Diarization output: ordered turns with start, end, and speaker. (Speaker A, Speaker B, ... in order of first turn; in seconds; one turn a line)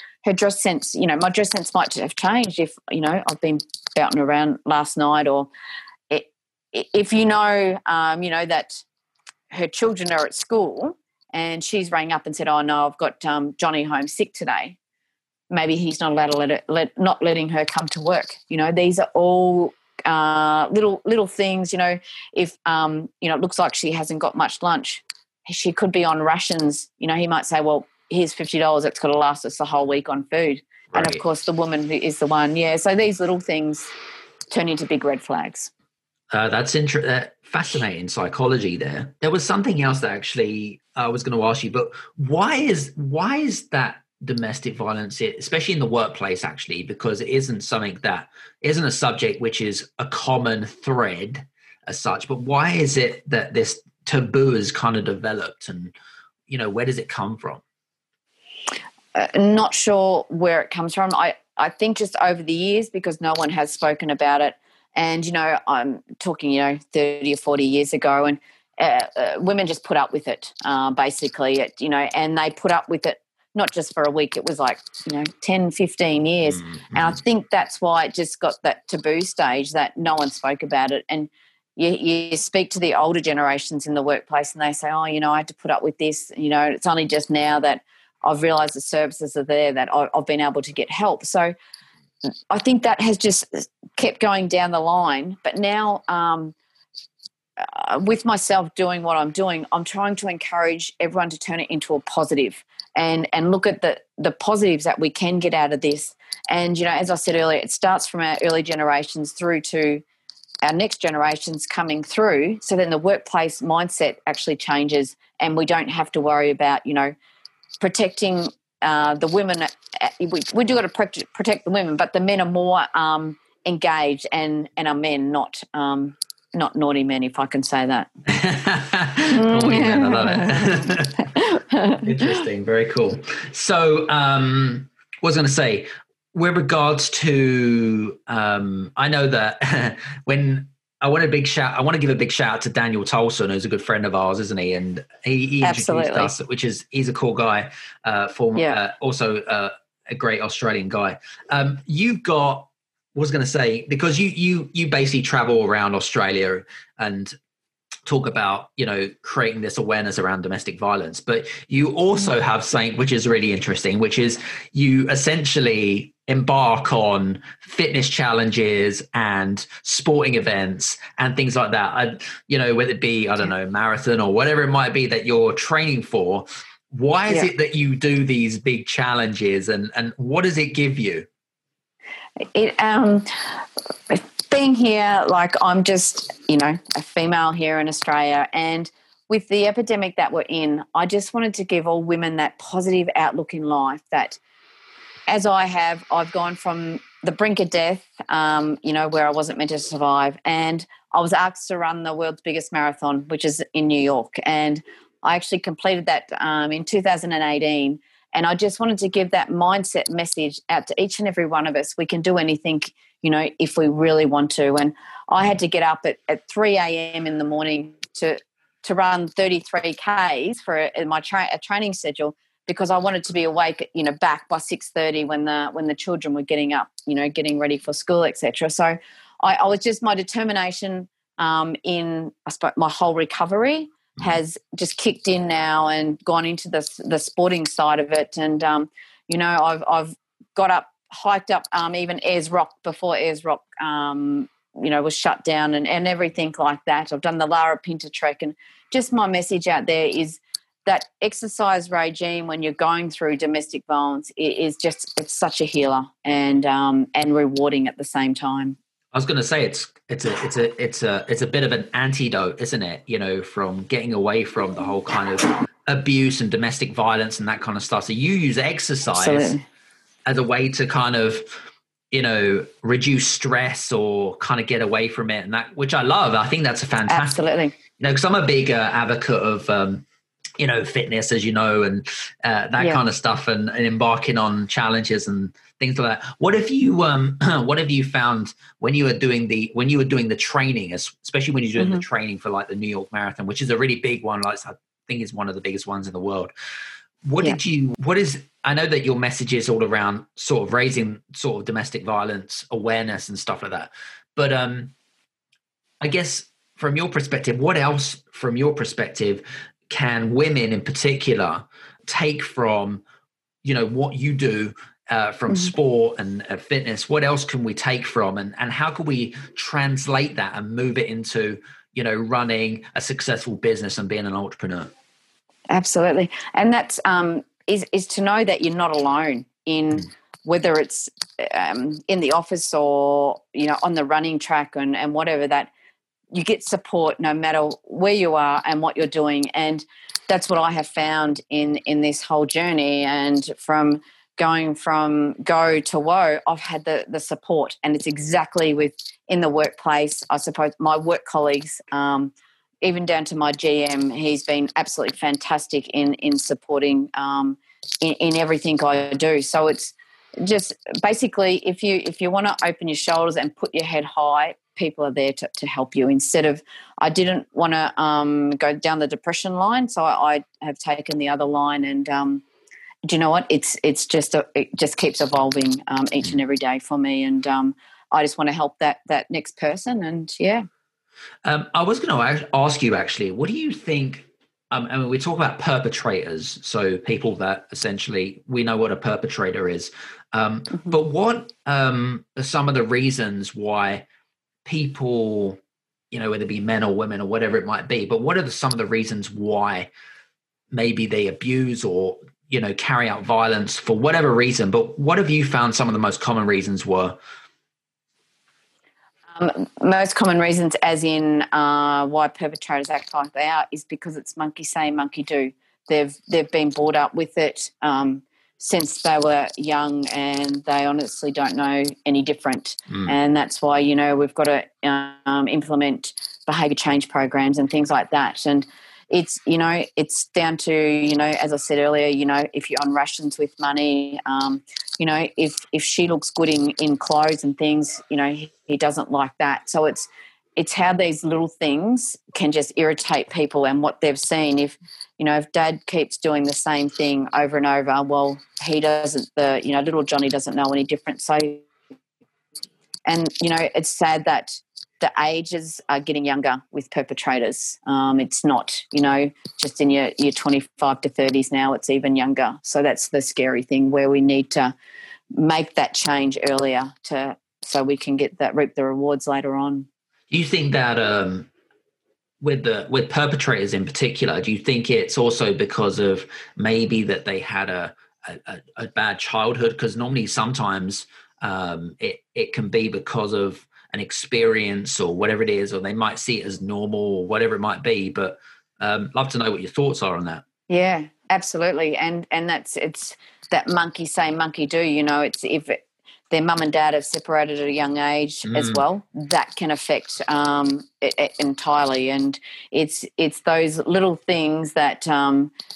Speaker A: 0.2-5.5
Speaker A: 6.1-8.8
Speaker A: 9.5-14.8
Speaker A: 15.5-33.9
Speaker B: 30.9-31.2
Speaker A: 34.5-35.7
Speaker B: 36.3-55.9
Speaker B: 56.5-57.6
Speaker A: 59.1-91.5
Speaker B: 76.7-77.1
Speaker A: 92.5-96.5
Speaker A: 97.6-110.0
Speaker A: 110.6-117.1
Speaker A: 117.8-128.1
Speaker B: 128.3-131.3
Speaker A: 129.3-132.0
Speaker B: 132.0-157.3
Speaker A: 145.6-146.3
Speaker B: 158.1-181.3
Speaker A: 182.5-194.4
Speaker A: 195.3-258.8
Speaker B: 259.1-269.5
Speaker A: 269.2-269.6
Speaker B: 270.3-277.4
Speaker A: 277.1-277.7
Speaker B: 278.0-280.0
Speaker B: 280.6-296.5
Speaker A: 291.8-292.0
Speaker B: 297.2-304.9
Speaker B: 306.0-313.0
Speaker B: 313.6-324.9
Speaker A: 325.7-335.7
Speaker A: 336.3-372.4
Speaker A: 373.1-380.7
Speaker B: 381.4-394.0
Speaker B: 394.6-395.6
Speaker B: 396.1-399.9
Speaker B: 400.7-407.2
Speaker A: 409.3-451.6
Speaker A: 453.1-464.7
Speaker A: 465.3-469.9
Speaker B: 470.3-471.5
Speaker B: 472.4-490.4
Speaker A: 490.7-505.5
Speaker B: 498.5-498.8